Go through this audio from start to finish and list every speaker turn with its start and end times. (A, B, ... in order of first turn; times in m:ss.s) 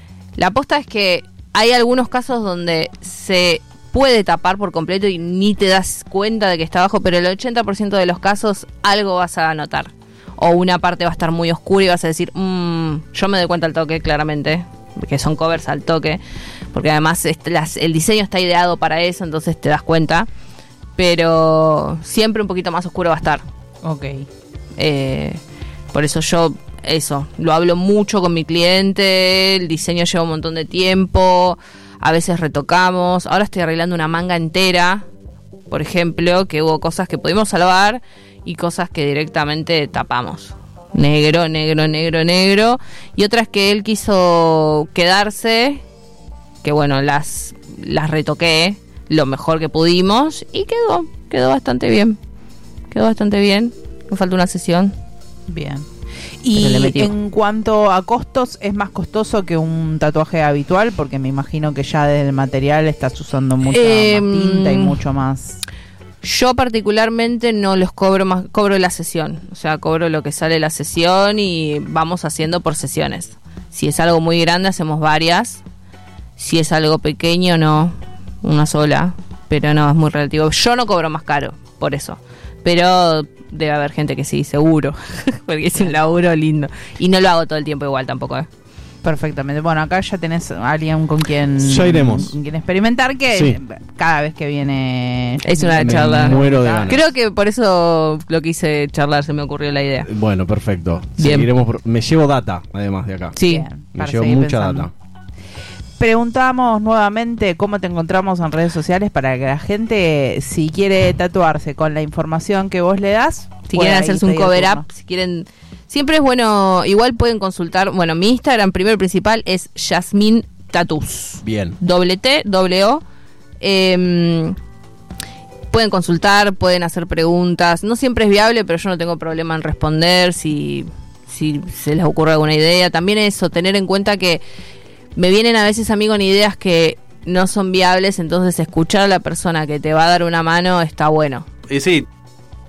0:00.4-0:16.2 A
0:16.7-0:20.3 A
0:21.0-0:23.4 A
0:23.8-0:24.2 B
0:24.8-0:25.4 A
0:25.9-0:35.0 A
0:35.7-0:45.8 A
0:46.6-0:52.2 A
0:52.9-0:55.0 A
0:55.5-0:55.8 B
0:56.4-1:05.6 B
0:56.5-0:57.1 A
1:03.6-1:05.0 A
1:06.2-1:15.6 A
1:16.4-1:28.5 A
1:29.0-1:37.0 B
1:31.6-1:32.4 C
1:33.3-1:33.6 C
1:35.4-1:40.1 A
1:35.8-1:37.1 C
1:40.0-1:43.4 C
1:41.2-1:41.5 A
1:43.3-1:43.7 A
1:43.4-1:44.9 B
1:43.9-1:44.9 C
1:46.0-1:54.8 B
1:53.7-2:03.0 A
2:01.4-2:01.8 C
2:03.6-2:04.6 A
2:05.7-2:14.4 A
2:15.1-2:21.5 A